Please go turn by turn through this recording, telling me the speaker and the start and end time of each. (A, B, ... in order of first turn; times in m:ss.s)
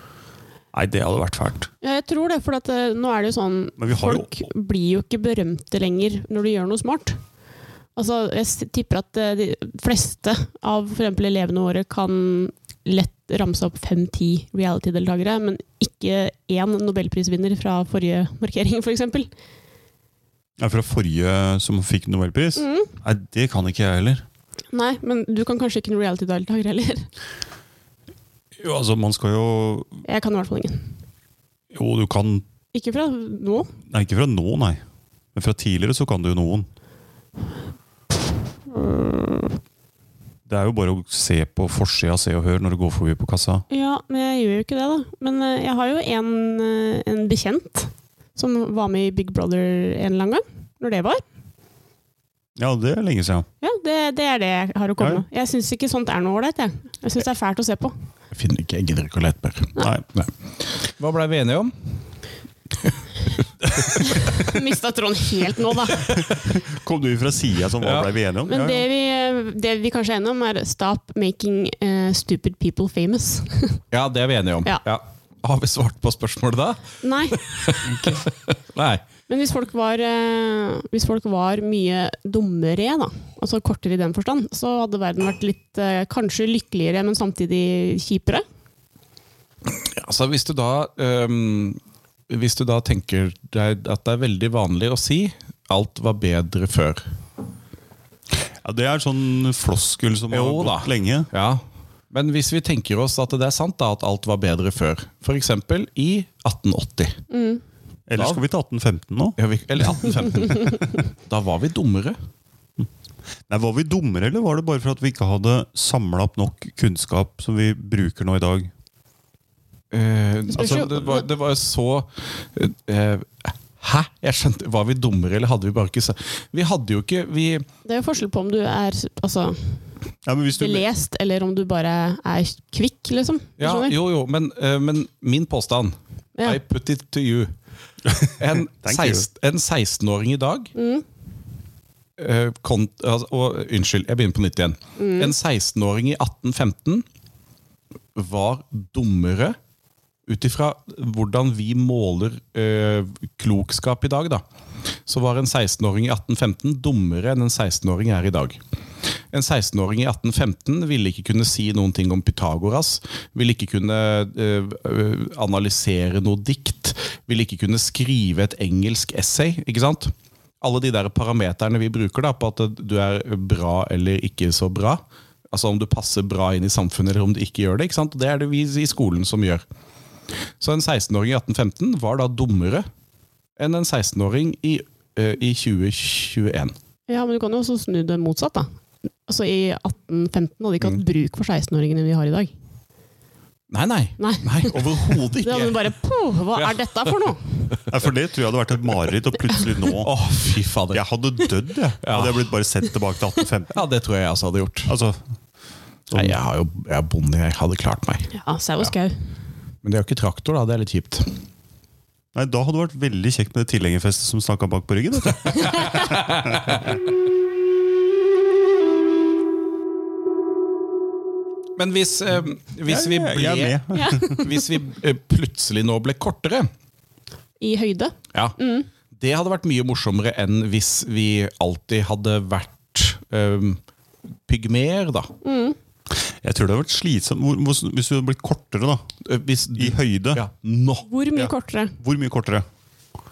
0:00.7-0:01.7 A
0:01.8-0:07.2 B
0:03.8-0:04.4 A
0:08.0-0:19.3 B
0:20.6-0:24.2 A
0:22.6-0:22.9 B
0:24.7-0:27.1 B
0:28.6-0:30.0 A
0:30.0-0:30.8 B
0:31.7-0:32.4 A
0:32.7-0:33.7 B
0:33.9-0:34.8 A
0:35.4-0:36.7 A
0:38.8-0:39.4 B
0:40.5-0:43.6 A
0:43.7-0:51.2 B
0:52.6-0:53.5 A
0:53.6-0:57.9 B
0:58.3-1:02.0 C
0:59.8-1:00.0 A
1:04.0-1:04.2 C
1:04.0-1:06.2 B
1:05.9-1:06.4 C
1:06.1-1:08.9 A
1:07.8-1:08.1 C
1:08.5-1:13.8 B
1:13.9-1:19.0 C
1:17.0-1:17.4 B
1:19.3-1:28.4 B
1:29.6-1:37.0 C
1:38.6-1:41.3 A
1:40.3-1:47.2 C
1:47.3-1:47.6 B
1:48.1-1:49.4 A
1:48.1-1:48.4 C
1:49.4-1:52.2 C
1:53.5-1:58.7 A
1:59.9-2:07.7 C
2:00.6-2:01.2 B
2:00.6-2:01.0 A
2:07.9-2:09.8 B
2:10.2-2:10.9 A
2:10.6-2:14.0 B
2:13.6-2:17.6 C
2:18.1-2:19.3 A
2:18.4-2:20.7 C
2:20.8-2:21.0 B
2:22.2-2:27.1 C
2:25.0-2:25.3 B
2:28.1-2:29.6 C
2:30.3-2:34.4 C
2:35.1-2:38.6 C
2:39.3-2:59.6 C
3:00.6-3:02.9 C
3:03.6-3:06.8 C
3:07.1-3:08.7 B
3:09.3-3:12.5 B
3:13.7-3:15.9 C
3:14.2-3:17.5 B
3:16.6-3:17.7 C
3:17.9-3:20.1 A
3:20.0-3:21.0 C
3:20.9-3:23.8 A
3:22.0-3:22.5 C
3:23.7-3:24.9 C
3:24.9-3:25.2 A
3:26.1-3:26.4 A
3:26.1-3:28.9 C
3:28.3-3:29.1 B
3:29.8-3:31.3 C
3:32.4-3:36.9 A
3:35.4-3:37.0 C
3:35.6-3:36.0 B
3:41.8-3:46.7 C
3:42.9-3:44.4 A
3:43.9-3:44.7 B
3:47.6-3:48.9 B
3:49.1-3:53.8 C
3:54.5-3:55.3 C
3:55.4-3:55.8 B
3:56.2-3:59.1 A
3:59.2-4:01.1 C
3:59.8-4:00.4 A
4:01.1-4:02.0 B
4:01.4-4:02.6 A